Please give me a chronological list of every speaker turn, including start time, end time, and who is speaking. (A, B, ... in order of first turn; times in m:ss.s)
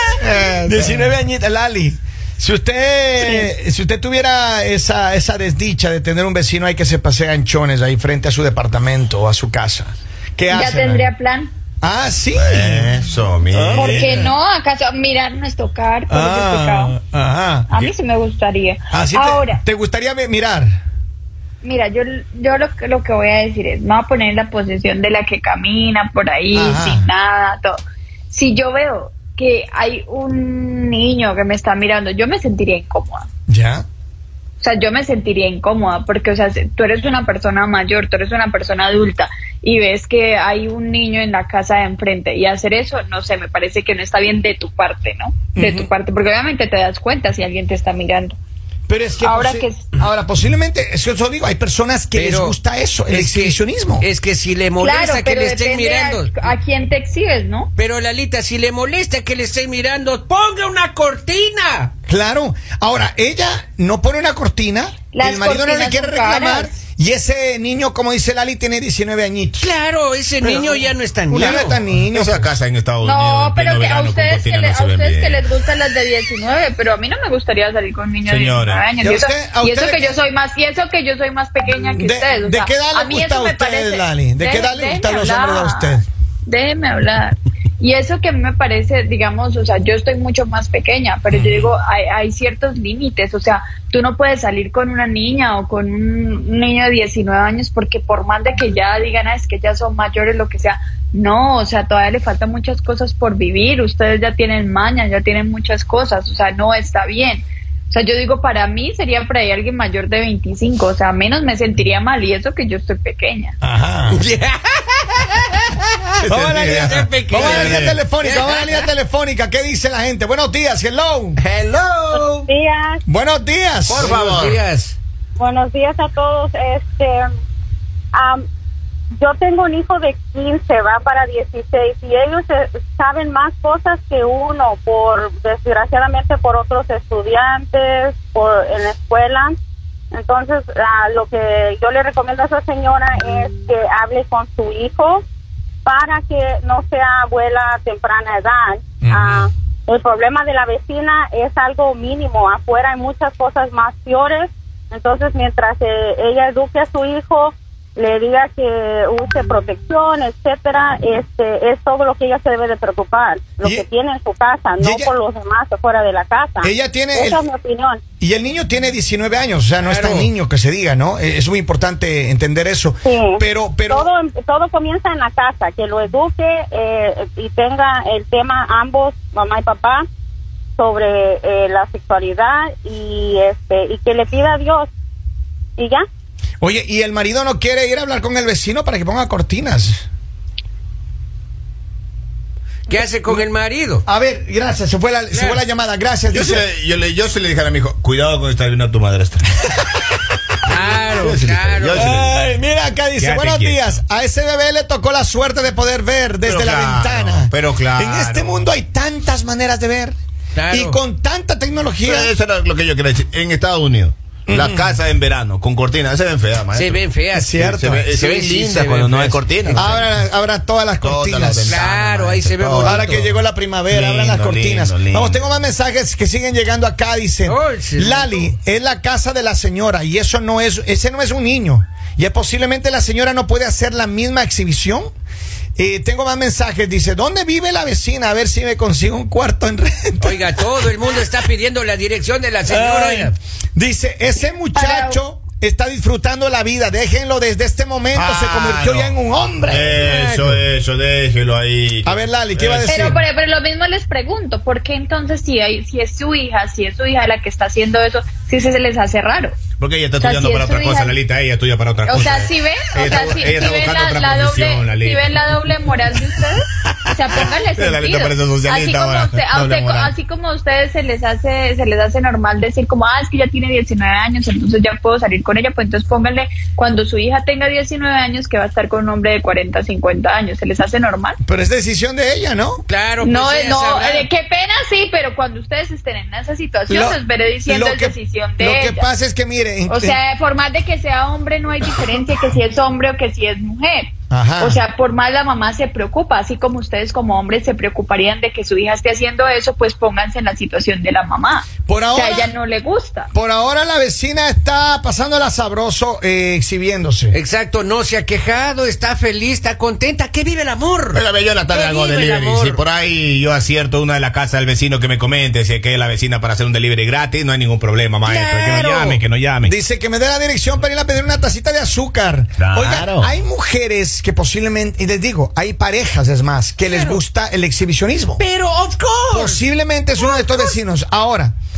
0:00.2-0:01.2 A
0:00.6-0:11.1 B
0:10.5-0:11.5 C
0:11.8-0:12.9 B
0:12.3-0:14.2 A
0:13.5-0:14.3 B
0:13.7-0:16.9 C
0:16.1-0:17.9 B
0:17.7-0:19.6 C
0:18.9-0:20.8 B
0:21.6-0:27.8 C
0:26.5-0:27.1 B
0:28.3-0:33.2 C
0:33.5-0:33.8 B
0:34.6-0:48.4 C
0:45.5-0:45.9 B
0:48.9-0:54.0 B
0:49.2-0:49.9 C
0:52.1-0:52.6 D
0:53.1-0:56.3 D
0:54.8-0:57.7 C
0:57.8-1:01.9 D
1:02.1-1:09.7 B
1:05.1-1:06.7 C
1:09.6-1:11.8 D
1:10.4-1:12.5 B
1:12.1-1:15.4 A
1:13.0-1:53.5 C
1:18.3-1:18.8 A
1:19.0-1:20.2 B
1:21.8-1:26.0 B
1:31.3-1:31.6 B
1:53.6-1:54.2 B
1:54.1-1:58.9 D
1:56.2-1:58.0 A
1:56.2-2:01.4 B
2:01.4-2:02.5 D
2:02.1-2:03.0 E
2:03.1-2:04.2 B
2:03.8-2:04.6 A
2:03.9-2:05.0 D
2:05.4-2:07.2 E
2:08.1-2:08.4 E
2:09.2-2:19.6 E
2:20.1-2:25.2 E
2:25.8-2:48.0 E
2:29.0-2:29.4 B
2:44.8-2:45.1 B
2:46.6-2:47.4 B
2:48.2-2:54.1 B
2:49.8-2:50.3 D
2:53.0-3:00.0 E
3:00.8-3:04.9 E
3:05.8-3:06.0 E
3:06.6-3:10.0 B
3:12.9-3:14.0 D
3:14.0-3:16.6 B
3:15.3-3:15.6 D
3:16.3-3:19.5 A
3:20.6-3:22.3 D
3:20.7-3:22.4 A
3:21.9-3:30.1 B
3:23.2-3:24.0 A
3:26.4-3:28.7 A
3:30.6-3:31.0 D
3:30.7-3:32.3 B
3:32.0-3:37.0 A
3:34.5-3:35.0 B
3:36.7-3:40.0 D
3:37.3-3:38.1 B
3:37.6-3:40.0 A
3:39.7-3:41.8 B
3:41.0-3:43.1 A
3:41.6-3:43.3 D
3:42.8-3:55.1 B
3:43.9-3:45.6 A
3:47.4-3:48.4 D
3:55.8-4:00.9 B
4:00.2-4:03.4 D
4:02.7-4:10.2 B
4:04.7-4:05.2 C
4:08.1-4:13.2 A
4:10.0-4:10.6 D
4:12.0-4:13.2 B
4:12.9-4:19.6 C
4:19.8-4:25.7 A
4:20.2-4:21.2 C
4:22.0-4:41.4 C
4:26.9-4:30.1 A
4:41.4-4:42.8 B
4:42.9-4:44.2 D
4:43.2-4:49.0 C
4:46.9-4:50.2 B
4:49.9-5:03.3 C
4:54.3-4:54.8 B
5:01.9-5:02.5 B
5:03.3-5:07.4 B
5:07.3-5:12.8 D
5:11.1-5:19.7 A
5:18.2-5:19.2 D
5:19.6-5:28.4 B
5:22.6-5:23.3 A
5:26.8-5:27.2 D
5:28.4-5:29.6 D
5:29.3-5:31.5 B
5:30.2-5:30.8 D